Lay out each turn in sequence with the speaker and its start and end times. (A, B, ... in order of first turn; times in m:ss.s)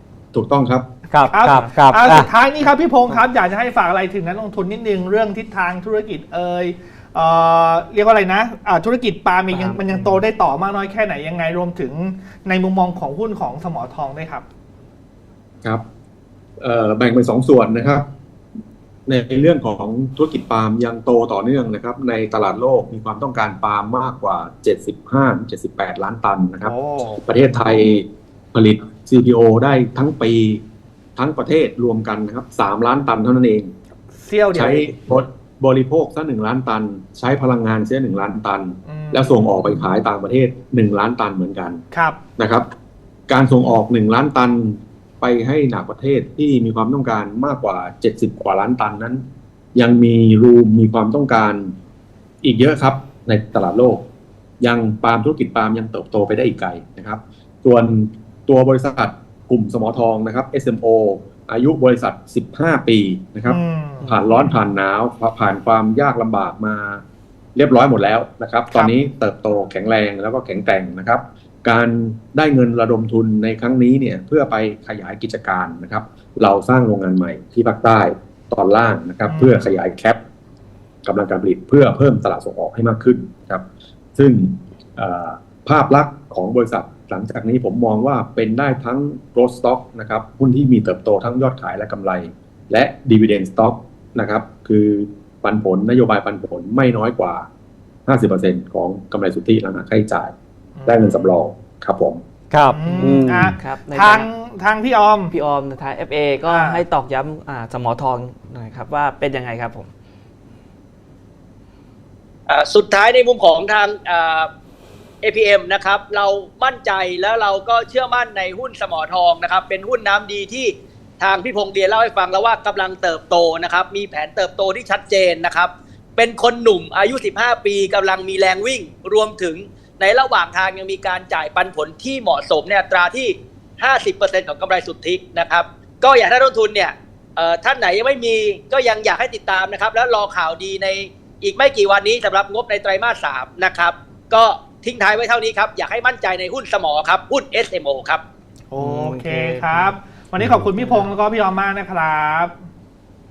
0:00.3-0:00.9 A
0:01.1-0:02.3 B
0:01.3-0:14.5 C
0:09.6-0:10.1 D
0:16.6-0:18.1 A
0:19.1-0:30.6 A
0:26.6-0:27.2 C
0:31.2-0:33.7 A
0:34.2-0:34.9 C
0:34.5-0:41.8 A
0:38.9-0:39.6 C
0:41.9-0:42.2 C
0:42.4-0:42.7 A
0:43.3-0:49.2 A
0:49.8-0:51.8 A
0:52.4-0:54.0 A
0:54.6-1:07.0 A
1:03.5-1:04.4 C
1:04.0-1:04.4 D
1:07.6-1:20.2 A
1:19.3-1:19.7 C
1:21.0-1:23.6 A
1:24.2-1:37.5 A
1:38.1-1:40.3 A
1:40.8-1:41.4 C
1:40.9-1:42.2 A
1:42.5-1:43.6 B
1:42.7-1:45.3 C
1:42.9-1:44.3 D
1:45.3-1:49.9 D
1:46.5-1:46.8 C
1:52.5-1:54.5 E
1:55.2-2:28.2 E
2:28.7-2:32.5 C
2:28.8-2:29.9 D
2:30.6-2:31.1 D